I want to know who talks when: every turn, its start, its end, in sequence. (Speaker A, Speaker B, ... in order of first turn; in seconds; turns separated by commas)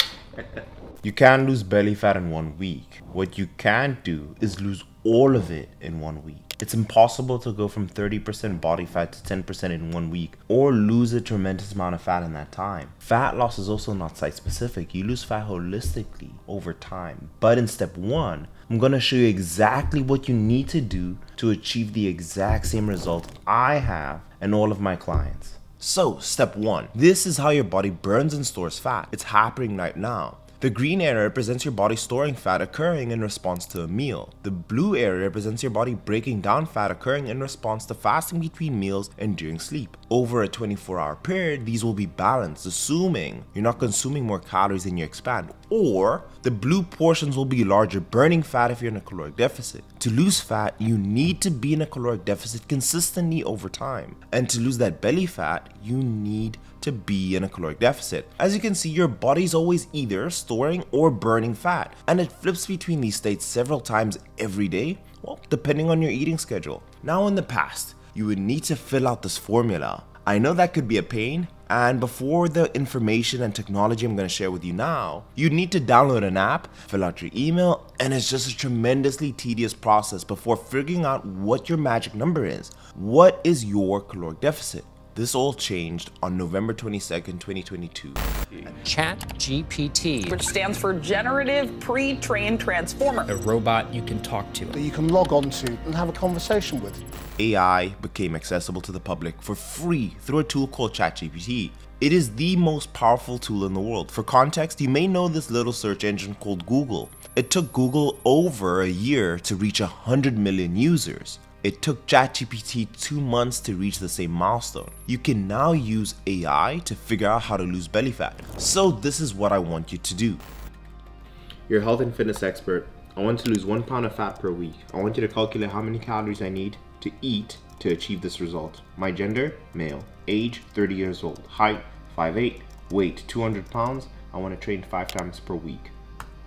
Speaker A: 0.4-88.7, Speaker B: 88.8-90.3, Speaker C: 90.3-93.3, Speaker B: 93.3-94.8, Speaker D: 94.7-97.0, Speaker A: 97.4-120.4, Speaker A: 121.7-135.9